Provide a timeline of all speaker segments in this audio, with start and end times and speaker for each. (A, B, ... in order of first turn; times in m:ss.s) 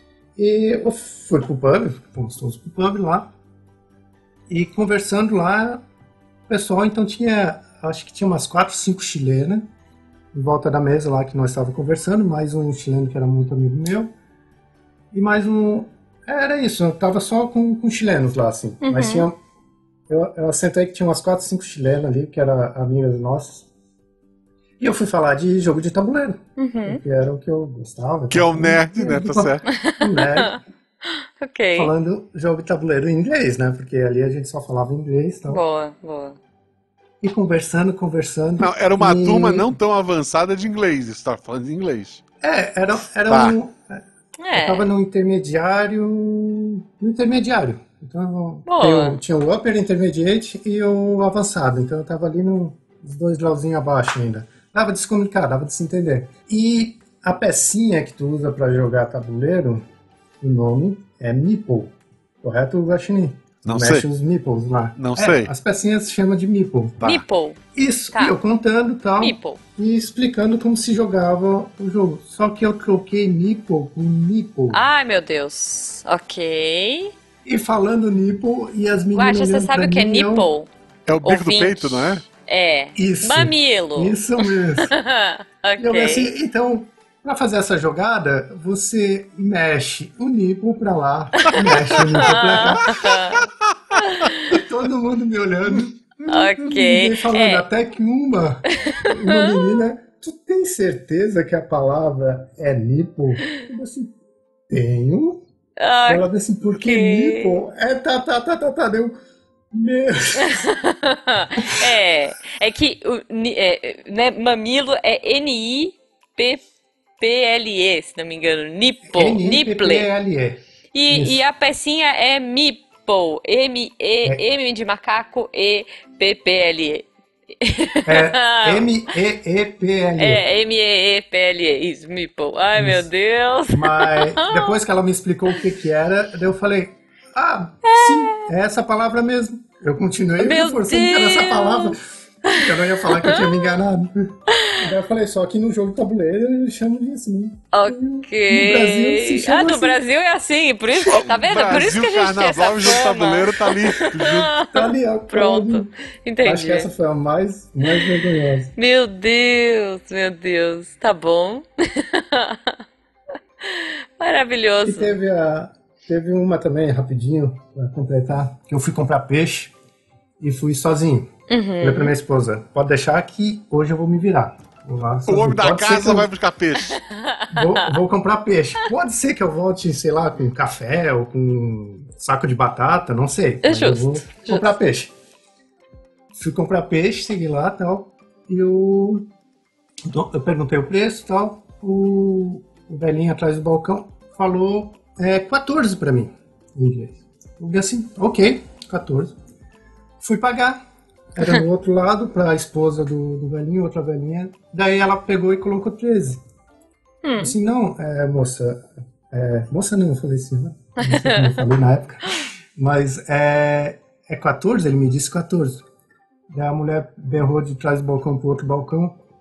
0:00.4-0:03.3 A
0:04.5-0:05.8 A
0:06.5-0:09.7 A
0:10.3-0:14.1 A
0:15.1-0:19.4 A
0:18.8-0:19.3 B
0:20.1-0:23.7 A
0:24.8-0:30.6 A
0:26.6-0:27.0 B
0:28.3-0:29.7 C
0:29.7-0:30.6 B
0:31.4-0:31.9 B
0:31.8-0:35.6 A
0:35.5-0:36.4 B
0:37.2-0:39.7 A
0:38.6-0:42.2 C
0:42.4-0:44.0 A
0:43.3-0:43.6 C
0:44.4-0:44.9 B
0:44.6-0:59.8 A
0:48.7-0:49.2 B
1:00.4-1:07.2 A
1:03.6-1:04.1 C
1:05.0-1:05.5 C
1:07.0-1:07.6 B
1:07.8-1:14.8 A
1:09.2-1:09.6 B
1:14.7-1:17.2 B
1:17.4-1:20.5 A
1:19.1-1:20.7 B
1:21.1-1:22.2 C
1:21.2-1:26.3 B
1:23.0-1:25.0 A
1:25.8-1:33.2 A
1:31.4-1:34.6 B
1:34.4-1:44.2 A
1:36.3-1:37.6 B
1:38.8-1:39.8 B
1:44.7-1:45.4 A
1:45.8-1:46.3 B
1:46.1-1:49.2 A
1:46.8-1:47.6 B
1:49.7-1:50.6 A
1:50.4-1:56.6 B
1:57.2-2:00.1 B
1:59.1-2:01.4 A
2:00.9-2:07.1 B
2:07.6-2:08.9 B
2:08.1-2:10.4 A
2:10.2-2:14.8 B
2:12.8-2:13.1 A
2:13.7-2:30.0 A
2:17.8-2:18.5 B
2:20.4-2:23.6 B
2:24.5-2:24.8 B
2:27.7-2:36.9 B
2:31.1-2:34.6 C
2:34.7-2:35.9 A
2:36.4-2:38.7 A
2:37.9-2:38.1 B
2:38.8-2:42.8 B
2:43.6-2:45.2 B
2:44.8-2:49.7 A
2:50.4-2:51.3 A
2:51.5-2:52.2 B
2:51.8-2:56.3 A
2:55.3-2:57.0 C
2:57.2-2:57.9 B
2:57.5-3:05.1 A
3:03.6-3:04.7 B
3:06.3-3:09.3 A
3:10.0-3:19.4 A
3:20.2-3:20.8 A
3:21.4-3:26.4 A
3:27.2-3:27.6 B
3:27.4-3:35.8 A
3:31.0-3:31.6 B
3:36.5-3:39.2 A